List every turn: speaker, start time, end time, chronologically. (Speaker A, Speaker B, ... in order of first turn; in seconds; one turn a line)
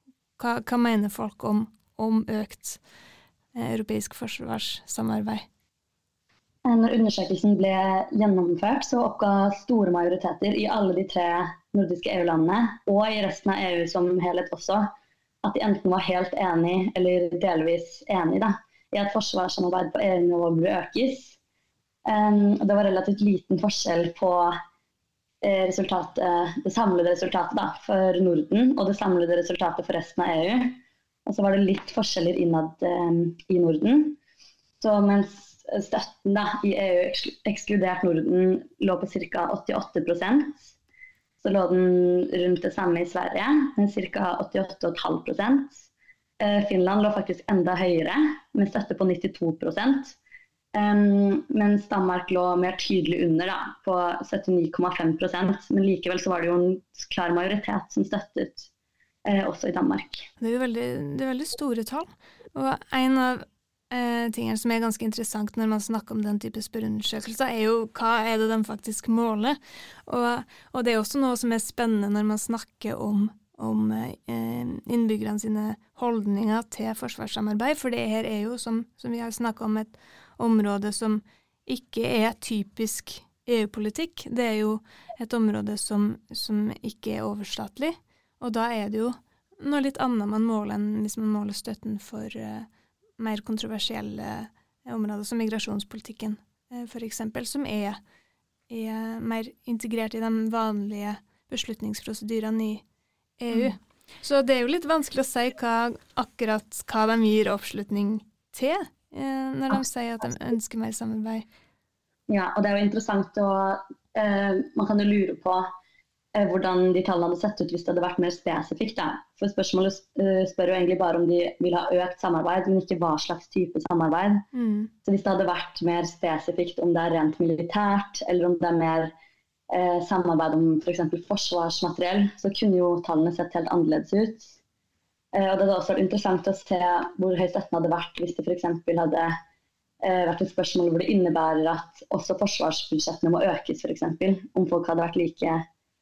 Speaker A: 0.4-2.8
Speaker A: 3.5-5.5
Speaker B: 6.6-14.9
Speaker B: 15.4-21.4
Speaker B: 22.1-24.6
Speaker B: 25.4-34.2
Speaker B: 34.8-40.7
Speaker B: 41.4-45.8
Speaker B: 46.4-50.1
Speaker B: 50.7-58.7
Speaker B: 59.2-60.3
Speaker A: 60.4-92.7
Speaker A: 93.2-98.0
Speaker A: 98.7-102.8
Speaker A: 103.4-111.5
Speaker B: 112.3-115.7
Speaker B: 116.3-124.5
Speaker A: 124.5-124.9
Speaker B: 125.0-129.1
Speaker B: 129.7-134.6
Speaker B: 135.3-139.3
Speaker B: 140.0-145.6